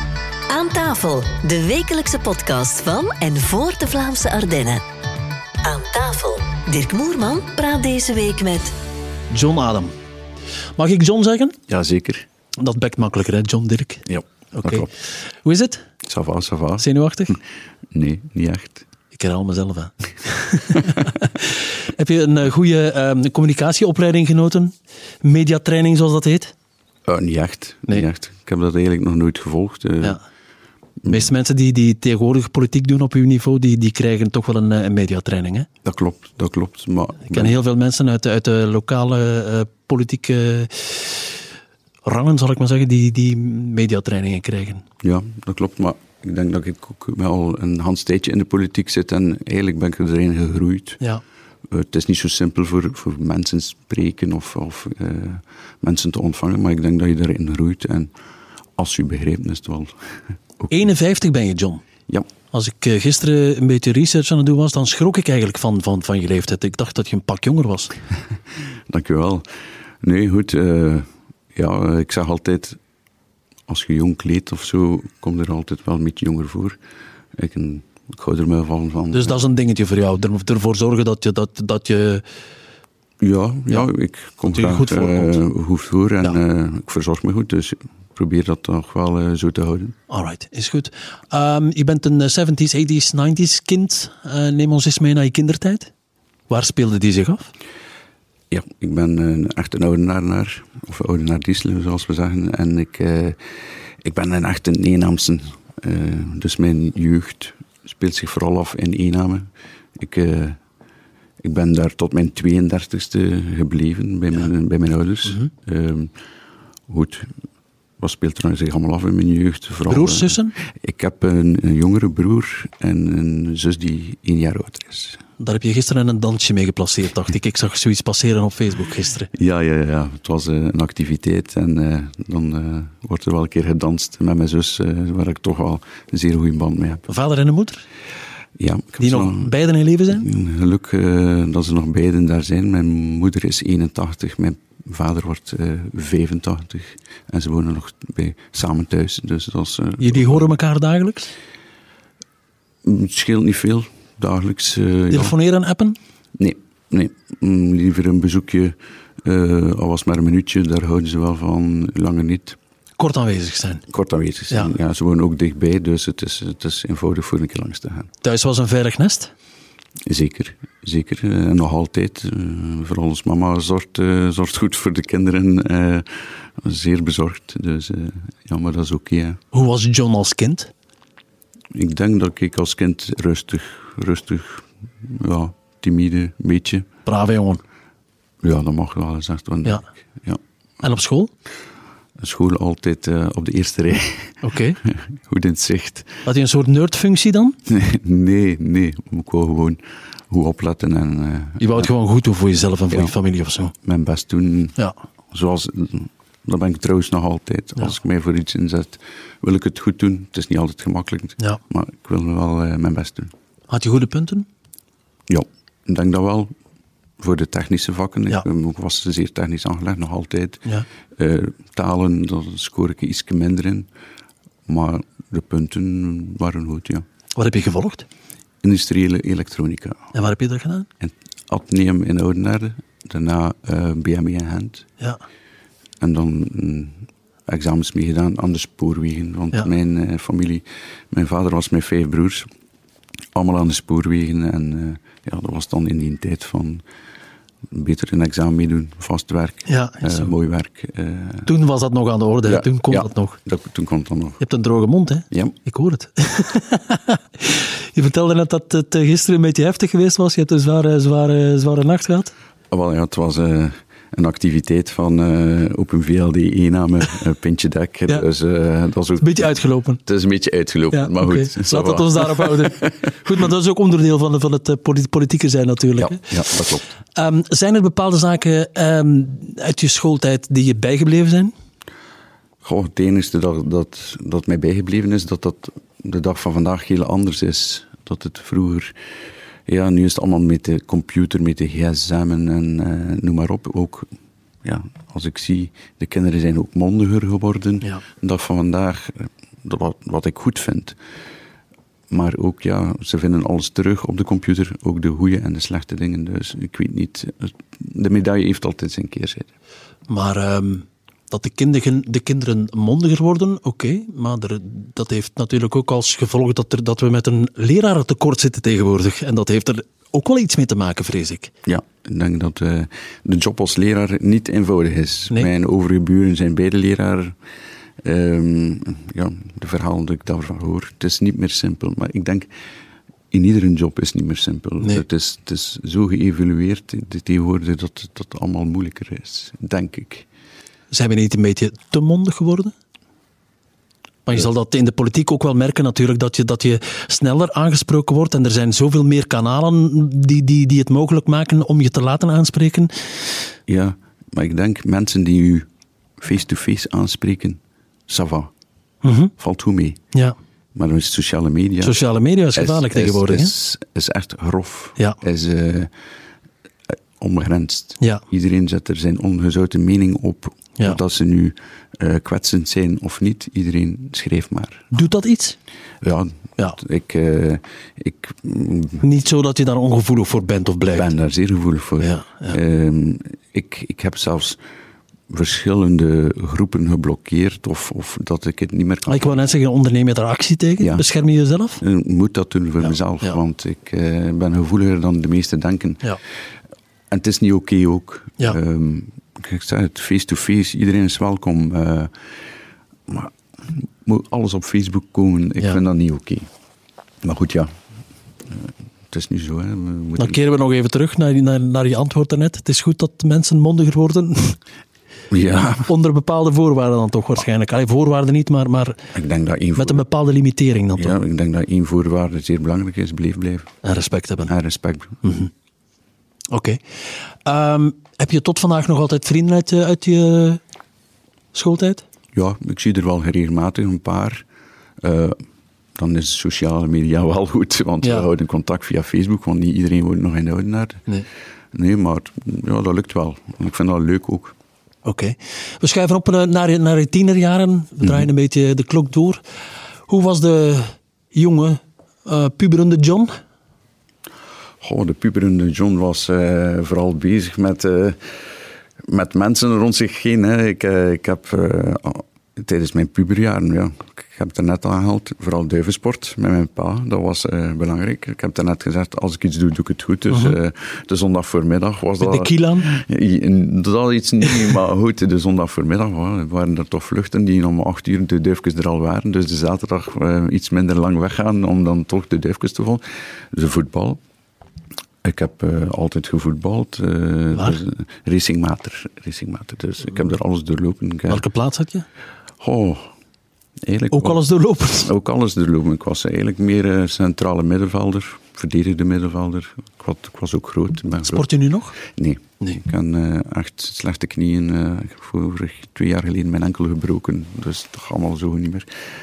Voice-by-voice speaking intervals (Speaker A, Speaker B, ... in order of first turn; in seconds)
Speaker A: 0.5-4.8, 5.6-8.8
Speaker B: 9.3-9.9, 10.8-11.6, 12.6-14.9, 15.4-15.8, 16.8-17.4, 19.1-26.5, 31.1-35.7, 37.3-41.4, 42.0-44.8, 60.7-61.8, 62.5-67.9, 79.1-82.2, 84.5-85.4, 90.1-95.9, 96.5-97.5, 119.9-120.5, 125.4-129.3, 137.1-137.8, 139.0-140.3, 150.0-151.3, 155.1-156.0, 163.0-163.8, 168.2-169.3, 179.5-180.7, 187.1-187.6, 190.8-191.3, 194.4-194.8, 196.2-197.6, 201.6-203.7, 213.7-214.5, 227.3-228.1, 230.1-230.9, 249.7-250.3, 251.5-253.4, 254.4-262.3, 269.2-270.0, 270.9-276.3, 277.2-281.5, 310.1-321.5, 340.9-342.7, 344.3-352.9, 359.0-359.3, 361.8-363.5, 374.9-375.6, 379.0-381.1, 382.0-382.6, 389.1-391.8, 392.8-393.4, 410.2-414.6, 415.8-419.1, 419.8-421.2, 423.8-424.5, 425.2-425.5, 426.5-426.8, 427.4-430.6, 431.5-432.0, 438.0-438.3, 445.1-449.4, 450.1-453.3, 470.3-470.6, 472.2-472.9, 487.5-487.8, 491.3-492.1, 494.1-495.1, 501.3-502.0
Speaker C: 11.7-12.2, 14.1-14.9, 16.1-16.9, 17.9-18.9, 27.1-30.2, 35.8-37.5, 45.0-51.0, 51.7-58.1, 58.8-59.9, 68.9-69.4, 70.0-72.8, 73.7-76.8, 77.4-79.4, 83.2-90.0, 98.5-103.4, 104.0-109.5, 110.0-110.6, 111.4-116.1, 116.9-117.3, 118.0-125.2, 129.3-137.1, 138.6-139.5, 140.1-150.5, 152.8-155.3, 156.4-162.6, 163.9-168.1, 170.1-179.4, 181.7-186.9, 188.4-190.4, 192.2-196.2, 197.7-201.9, 202.9-203.2, 203.8-204.8, 205.3-213.3, 215.3-216.5, 217.2-220.6, 221.2-223.9, 224.7-227.0, 228.6-230.1, 231.0-234.9, 236.0-242.5, 243.3-246.8, 247.7-251.5, 252.5-254.4, 255.3-255.6, 262.7-269.5, 270.1-273.0, 276.0-276.9, 282.6-288.9, 289.7-294.1, 294.6-301.0, 302.1-309.5, 321.7-327.4, 328.0-332.5, 333.3-340.3, 353.7-355.7, 356.2-358.5, 359.4-360.0, 360.8-362.0, 362.6-365.9, 366.9-374.9, 376.0-379.0, 380.9-384.6, 385.3-389.4, 390.8-391.1, 391.8-396.0, 397.1-402.1, 403.1-406.5, 407.2-407.7, 408.5-410.4, 415.3-415.9, 419.1-420.0, 421.0-423.8, 424.5-425.2, 432.3-434.4, 435.0-435.4, 436.0-441.0, 441.7-444.6, 448.0-448.3, 454.8-458.2, 459.1-484.2, 485.2-491.4, 492.6-493.1, 493.8-494.4, 495.0-501.5, 502.0-508.9